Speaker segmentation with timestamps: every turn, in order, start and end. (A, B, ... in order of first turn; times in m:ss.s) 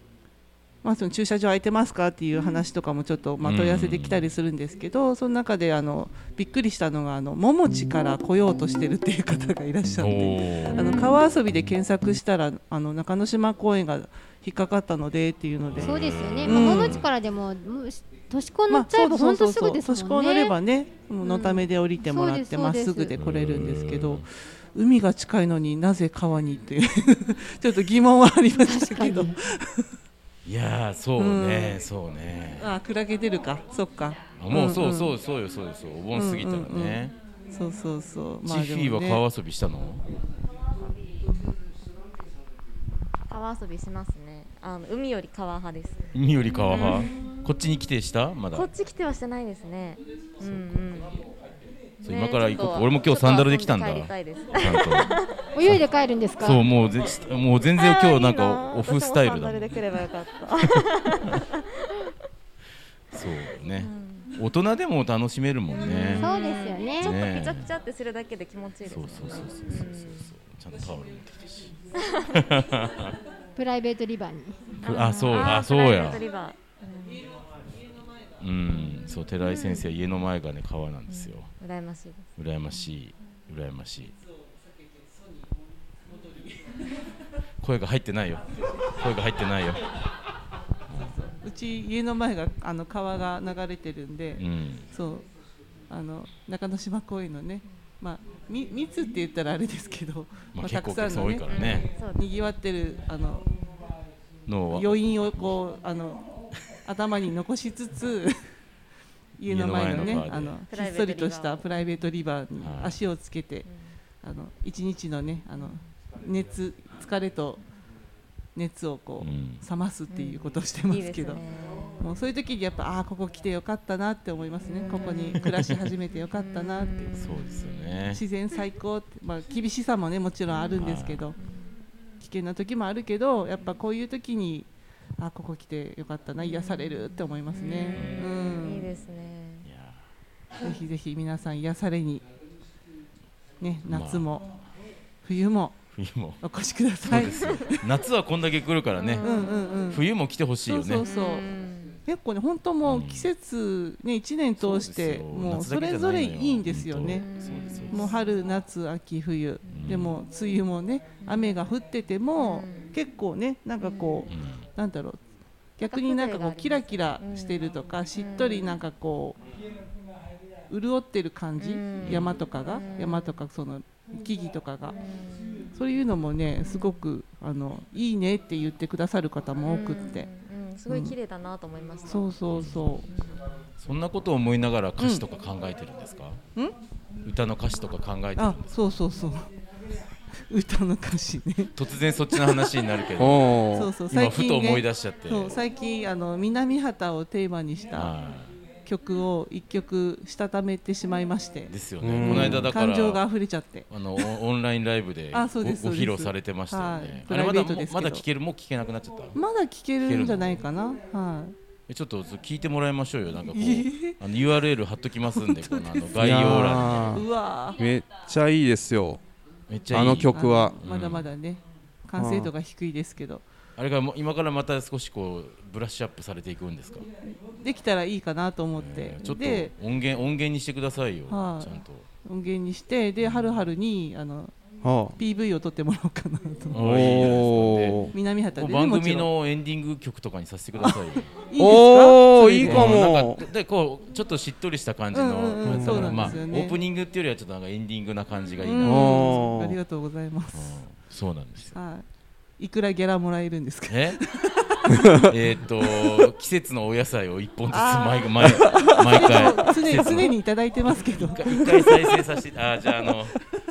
0:00.8-0:17.0 A
0:03.4-0:04.3 B
0:10.0-0:10.9 B
0:10.7-0:11.1 C
0:15.7-0:17.1 B
0:15.8-0:20.5 C
0:18.7-0:29.9 A
0:21.2-0:23.1 C
0:23.2-0:24.2 B
0:28.6-0:29.3 C
0:30.4-0:32.7 B
0:31.2-0:31.8 A
0:32.6-0:35.1 A
0:34.4-0:37.1 B
0:36.1-0:39.2 A
0:38.4-0:40.0 B
0:43.3-0:46.0 D
0:46.1-0:48.7 B
0:46.6-0:47.1 D
0:48.5-0:51.2 D
0:52.0-0:55.5 D
0:52.0-0:55.1 B
0:55.5-0:56.6 C
0:56.4-0:59.8 B
0:57.8-1:02.0 D
1:03.1-1:06.2 B
1:03.8-1:04.3 D
1:05.7-1:10.3 D
1:06.2-1:07.1 C
1:07.0-1:07.7 B
1:08.8-1:11.8 B
1:11.9-1:12.4 D
1:12.3-1:13.1 B
1:13.6-1:14.6 C
1:14.8-1:17.3 D
1:14.8-1:16.2 B
1:18.4-1:21.5 B
1:18.9-1:19.9 D
1:21.1-1:22.3 D
1:22.4-1:24.1 B
1:27.6-1:29.8 B
1:30.9-1:31.2 B
1:31.2-1:35.2 A
1:34.4-1:34.8 B
1:35.9-1:43.5 A
1:40.5-1:41.9 B
1:41.5-1:42.2 D
1:44.5-1:45.5 B
1:44.7-1:46.2 A
1:46.8-1:48.4 A
1:49.4-1:53.6 A
1:49.5-1:50.6 B
1:50.0-1:51.7 D
1:52.6-1:53.0 B
1:53.6-1:53.9 D
1:54.2-1:57.6 A
1:55.6-1:55.9 D
1:58.5-2:01.4 A
1:59.2-1:59.6 B
2:00.1-2:02.1 D
2:02.0-2:07.2 A
2:04.7-2:05.7 D
2:06.3-2:07.7 D
2:07.2-2:08.2 B
2:08.1-2:11.3 A
2:10.5-2:10.8 D
2:10.8-2:11.3 B
2:11.4-2:11.7 D
2:12.2-2:18.9 A
2:16.4-2:19.7 D
2:17.9-2:18.2 B
2:19.6-2:20.0 B
2:20.6-2:22.2 A
2:23.6-2:24.5 A
2:23.9-2:24.3 B
2:25.2-2:25.8 A
2:25.9-2:26.4 B
2:26.4-2:27.8 A
2:27.1-2:29.3 B
2:27.4-2:27.8 D
2:28.9-2:29.8 D
2:29.2-2:30.0 A
2:29.9-2:31.0 B
2:30.6-2:31.5 A
2:31.0-2:32.0 D
2:32.0-2:37.2 A
2:32.8-2:33.3 B
2:34.6-2:38.0 B
2:37.0-2:38.4 D
2:37.9-2:45.2 A
2:39.7-2:40.1 B
2:41.2-2:41.6 D
2:42.4-2:42.9 D
2:43.8-2:44.3 D
2:44.3-2:44.7 B
2:45.8-2:49.4 A
2:45.8-2:48.8 D
2:50.7-2:55.0 A
2:51.6-2:53.4 D
2:52.0-2:52.3 B
2:54.9-2:55.7 D
2:55.7-3:00.3 A
2:56.6-2:57.0 D
2:59.6-3:02.4 D
3:00.9-3:01.1 A
3:02.0-3:03.0 A
3:02.5-3:02.9 B
3:03.0-3:03.5 D
3:03.8-3:06.4 B
3:05.0-3:05.2 A
3:07.2-3:08.7 B
3:08.4-3:09.5 A
3:10.5-3:11.7 A
3:11.7-3:15.6 B
3:13.2-3:13.9 E
3:13.7-3:18.1 A
3:17.9-3:18.5 B
3:18.8-3:24.3 A
3:21.7-3:23.2 B
3:22.0-3:22.7 E
3:23.9-3:29.4 B
3:25.3-3:28.2 A
3:29.3-3:31.6 A
3:30.0-3:30.6 B
3:31.9-3:37.2 B
3:33.5-3:34.2 A
3:35.3-3:36.1 A
3:36.2-3:37.2 E
3:37.1-3:37.8 A
3:37.8-3:39.2 E
3:39.7-3:41.3 B
3:39.9-3:40.8 E
3:40.3-3:43.4 A
3:42.2-3:42.5 E
3:43.8-3:47.1 B
3:47.5-3:49.7 A
3:48.8-3:52.1 B
3:51.3-3:54.5 A
3:53.2-3:53.6 B
3:54.8-3:55.2 E
3:55.2-3:56.8 A
3:56.7-4:01.5 B
3:56.8-3:58.1 E
3:58.1-3:59.3 A
4:00.8-4:02.9 A
4:01.6-4:03.4 E
4:02.3-4:09.4 B
4:05.1-4:06.7 A
4:05.6-4:06.4 E
4:08.6-4:10.8 A
4:08.8-4:09.8 E
4:10.5-4:11.7 B
4:11.7-4:12.0 A
4:12.6-4:15.2 A
4:13.9-4:14.2 B
4:15.2-4:20.3 B
4:17.7-4:22.1 A
4:21.0-4:23.4 B